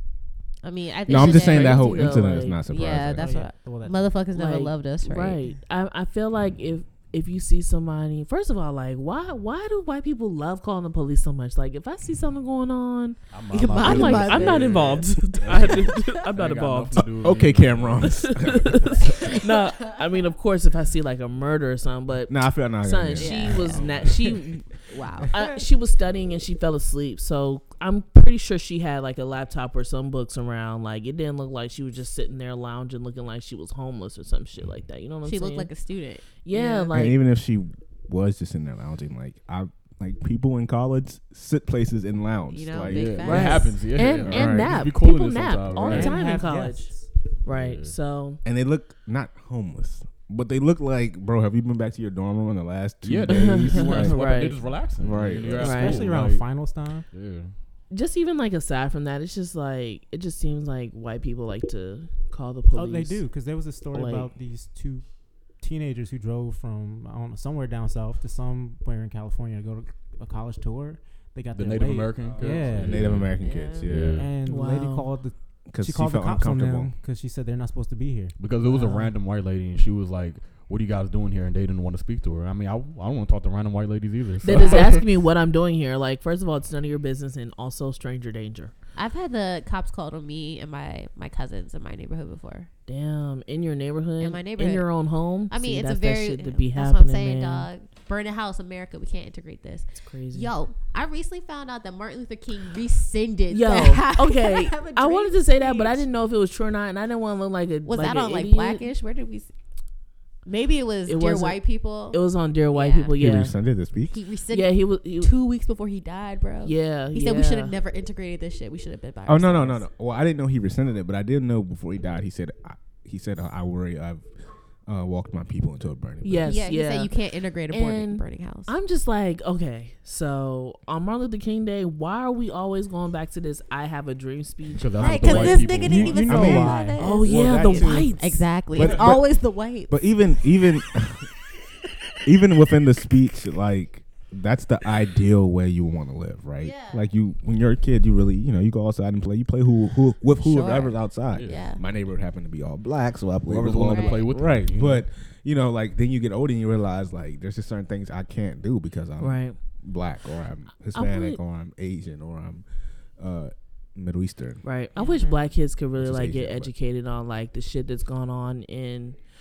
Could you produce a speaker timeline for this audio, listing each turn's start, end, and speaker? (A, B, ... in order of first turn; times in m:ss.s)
0:00.6-0:05.4 A
0:01.0-0:03.5 B
0:01.1-0:02.6 C
0:02.9-0:04.2 D
0:04.3-0:13.2 C
0:13.3-0:18.3 E
0:13.5-0:15.0 A
0:13.8-0:17.1 C
0:17.2-0:19.3 B
0:18.0-0:35.7 C
0:22.3-0:23.9 B
0:23.2-0:24.1 A
0:23.7-0:24.2 E
0:24.9-0:25.6 A
0:35.2-0:37.1 A
0:36.4-0:37.2 C
0:36.9-0:43.2 B
0:42.5-0:43.8 A
0:42.8-0:46.2 E
0:43.2-0:48.4 C
0:44.0-0:44.8 B
0:45.8-0:47.1 D
0:47.4-0:48.0 E
0:48.4-0:55.7 B
0:53.0-0:57.6 E
0:53.3-0:54.6 C
0:55.5-0:57.1 D
0:55.6-0:56.0 C
0:57.9-1:03.2 C
1:02.7-1:13.2 D
1:03.9-1:04.3 C
1:11.5-1:13.4 E
1:12.2-1:14.3 B
1:13.4-1:14.0 A
1:13.9-1:14.3 E
1:14.0-1:19.1 D
1:14.4-1:15.1 C
1:15.7-1:16.9 B
1:18.4-1:25.0 E
1:24.4-1:28.7 C
1:24.5-1:25.0 A
1:28.9-1:32.7 A
1:32.9-1:37.7 C
1:34.2-1:46.1 A
1:40.0-1:40.5 C
1:43.5-1:48.9 C
1:47.8-1:49.5 A
1:50.4-1:53.2 A
1:51.1-1:53.6 C
1:53.2-1:54.2 B
1:54.1-1:59.8 A
1:54.5-1:55.3 C
1:56.6-1:57.7 C
1:59.2-2:06.5 B
2:06.2-2:15.7 C
2:06.4-2:08.7 A
2:14.8-2:16.6 E
2:15.0-2:20.2 A
2:15.8-2:21.3 B
2:15.9-2:17.1 D
2:17.0-2:18.5 C
2:22.2-2:42.6 B
2:26.6-2:27.0 A
2:30.4-2:31.8 A
2:31.3-2:31.7 E
2:33.4-2:35.0 E
2:33.9-2:34.2 A
2:39.2-2:39.6 C
2:40.9-2:41.4 C
2:43.2-2:44.6 B
2:44.6-2:49.2 C
2:44.9-2:45.4 A
2:46.0-2:46.7 B